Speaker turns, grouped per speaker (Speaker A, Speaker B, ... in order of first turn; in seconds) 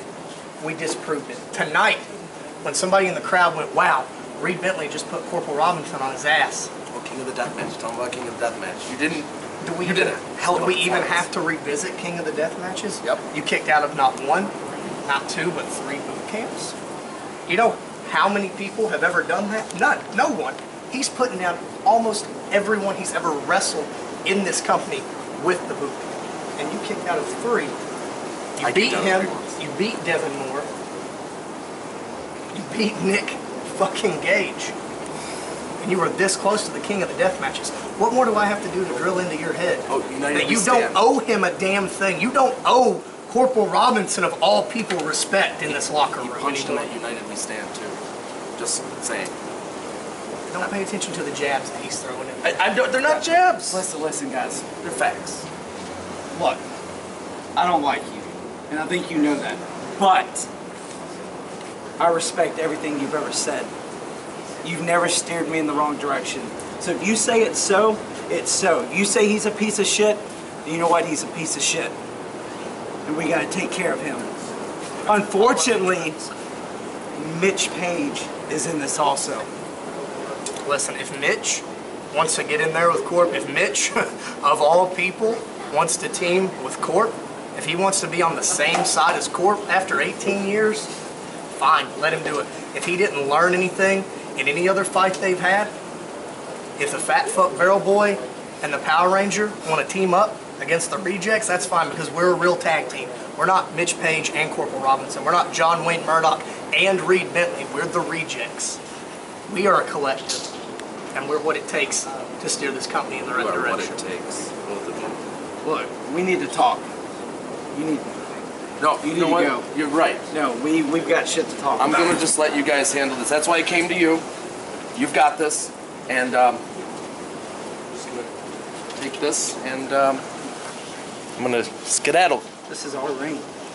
Speaker A: 0.6-2.1, 2.6-6.7, 9.6-14.5, 15.1-16.7, 17.5-27.8, 28.6-30.7, 32.5-34.8, 35.8-46.9, 50.5-52.6, 75.4-76.2, 80.7-90.9, 91.6-95.7, 96.8-108.8, 109.5-110.5, 111.1-114.0
Speaker B: 6.9-9.3, 9.8-11.3, 28.6-29.6, 39.9-41.0, 46.2-48.0, 48.6-49.3, 52.4-53.8, 54.8-55.5, 113.3-115.2, 118.8-120.3, 121.8-124.2, 125.0-126.6, 128.0-128.3, 129.0-130.2, 131.4-132.5
Speaker C: 53.1-54.7, 56.3-56.6, 57.6-60.5, 62.0-63.7, 64.6-72.0, 73.0-74.3, 75.1-76.2, 77.2-79.5, 115.6-116.9, 117.7-118.4, 119.0-119.7, 120.3-122.2, 132.7-133.5